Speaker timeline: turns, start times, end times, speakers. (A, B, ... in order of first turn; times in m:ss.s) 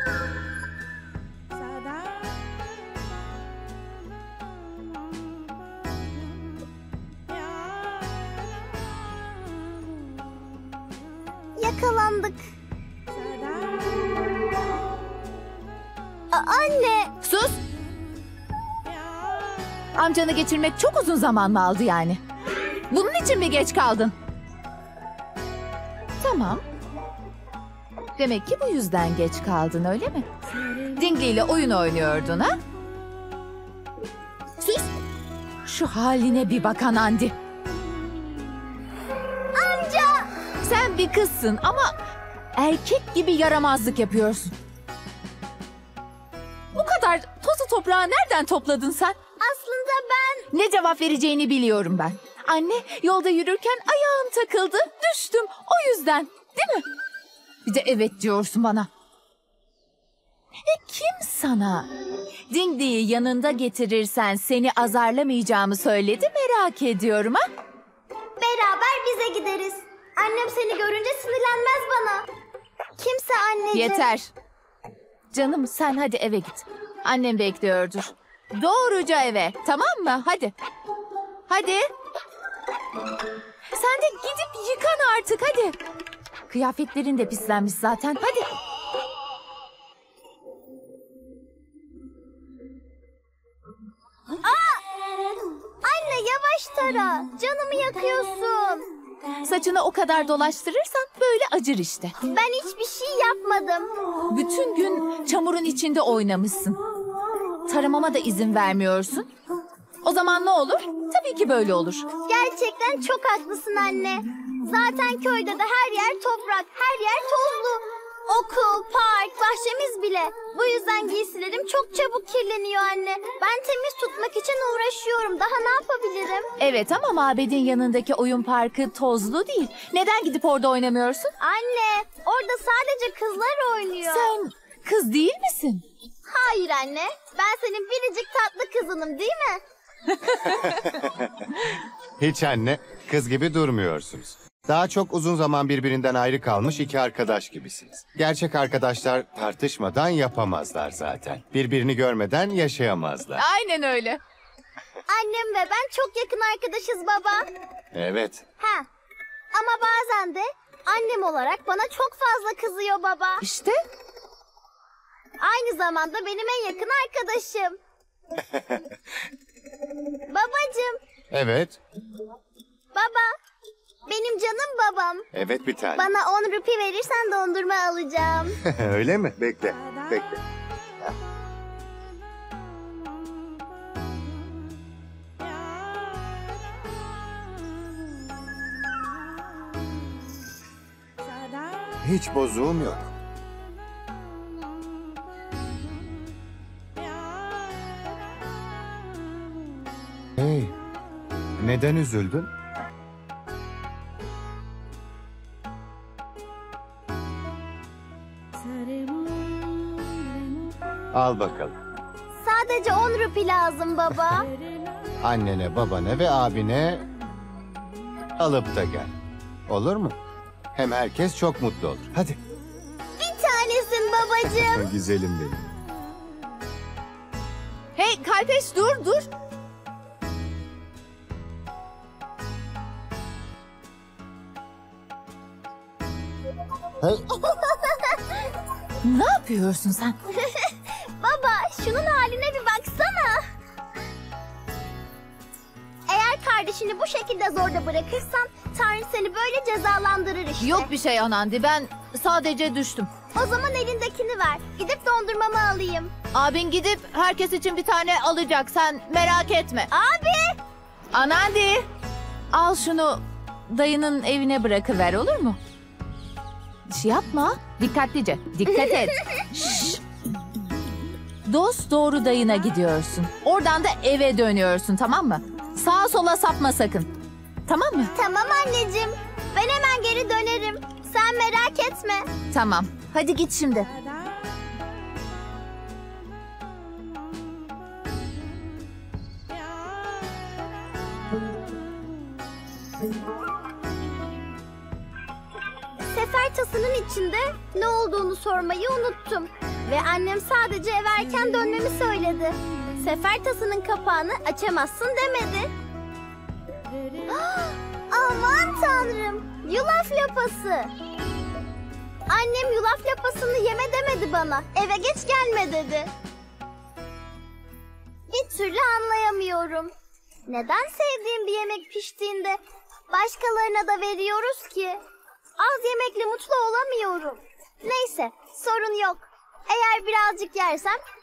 0:11.6-0:12.4 A
0:16.3-0:17.1 A
0:17.2-0:17.6 B
0:20.0-0:22.2 B
0:22.9-0:24.1 B
0:26.2-0:26.6 B
0:28.2-0:30.3 B
0:31.0-0:32.6 B
0:34.6-0:34.9 B
0:35.6-0:37.3 B
0:39.5-0:40.3 A
0:40.6-0:41.9 B
0:42.6-0:44.5 B
0:46.7-0:49.2 B
0:49.4-0:50.4 A
0:50.5-0:56.8 B
0:57.6-0:58.9 B
1:00.6-1:01.9 B
1:02.5-1:07.4 B
1:08.4-1:12.3 A
1:13.0-1:14.0 A
1:13.7-1:14.3 B
1:15.3-1:20.5 B
1:21.5-1:21.8 B
1:23.7-1:25.8 B
1:26.5-1:28.5 B
1:34.4-1:34.8 A
1:35.8-1:38.8 A
1:39.4-1:42.1 B
1:42.3-1:43.9 A
1:44.3-1:46.8 B
1:47.7-1:49.3 B
1:50.0-1:52.1 B
1:52.3-2:06.5 A
2:06.6-2:11.3 B
2:11.4-2:14.3 A
2:14.1-2:15.8 B
2:16.3-2:19.6 A
2:20.4-2:21.4 C
2:22.2-2:33.4 C
2:33.4-2:34.2 B
2:35.1-2:37.5 A
2:37.9-2:38.4 C
2:38.6-2:38.9 A
2:39.5-2:43.4 A
2:43.4-2:43.8 B
2:45.4-2:47.8 A
2:48.4-2:48.8 C
2:50.3-2:51.0 A
2:51.3-2:51.8 C
2:52.9-2:53.3 A
2:54.1-2:55.2 A
2:55.3-2:56.1 C
2:56.0-2:58.6 A
2:58.6-3:00.4 C
3:12.0-3:13.0 C
3:20.4-3:20.7 C
3:21.6-3:22.5 C
3:31.1-3:31.7 C
3:32.4-3:34.5 A
3:35.2-3:37.1 C
3:38.4-3:39.1 C
3:39.7-3:40.2 C
3:40.7-3:42.4 C
3:43.2-3:44.8 A
3:44.6-3:45.7 C
3:48.0-3:49.3 B
3:59.0-4:00.2 B
4:00.4-4:03.4 A
4:06.1-4:10.9 A
4:10.6-4:13.1 B
4:13.3-4:16.1 A
4:16.3-4:19.9 B
4:19.9-4:20.6 A
4:21.1-4:21.8 B
4:22.5-4:25.6 B
4:26.9-4:30.0 B
4:31.4-4:37.1 B
4:37.6-4:38.1 B
4:38.1-4:42.3 A
4:42.5-4:43.9 B
4:56.1-5:05.7 A
5:07.3-5:10.9 A
5:12.3-5:16.1 A
5:18.3-5:19.9 A
5:20.5-5:25.0 A
5:25.6-5:31.0 A